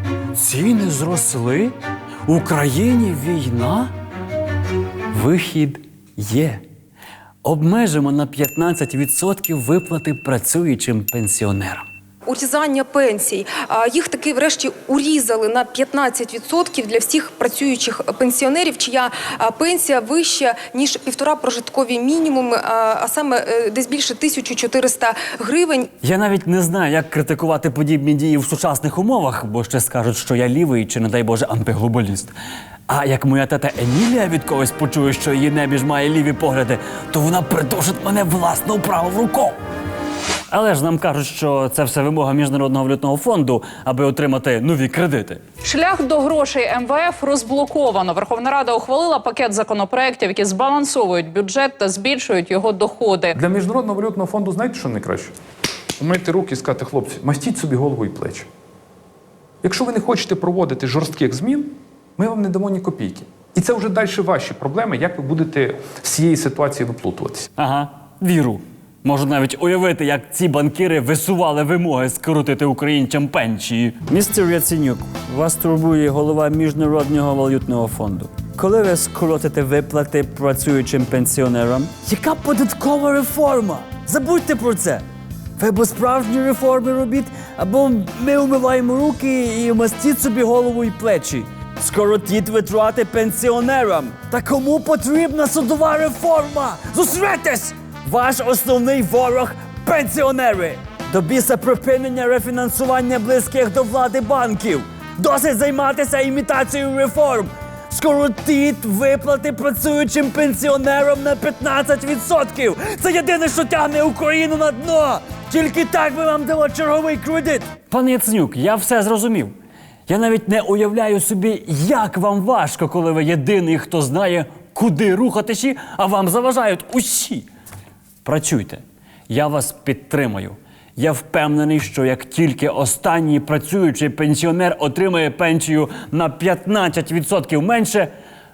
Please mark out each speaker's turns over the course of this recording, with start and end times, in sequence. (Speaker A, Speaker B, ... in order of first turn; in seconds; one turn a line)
Speaker A: 0.3-1.7
Speaker A: 2.2-3.9
Speaker A: 5.1-6.6
Speaker A: 7.4-11.8
Speaker B: 12.2-25.9
Speaker A: 26.0-32.3
Speaker A: 32.9-39.5
Speaker A: 40.5-45.4
Speaker C: 45.6-53.4
Speaker D: 53.3-55.3
Speaker D: 56.0-58.5
Speaker D: 59.6-67.5
Speaker A: 67.5-85.0
Speaker A: 85.6-119.5
Speaker A: 120.1-127.5
Speaker A: 128.2-138.1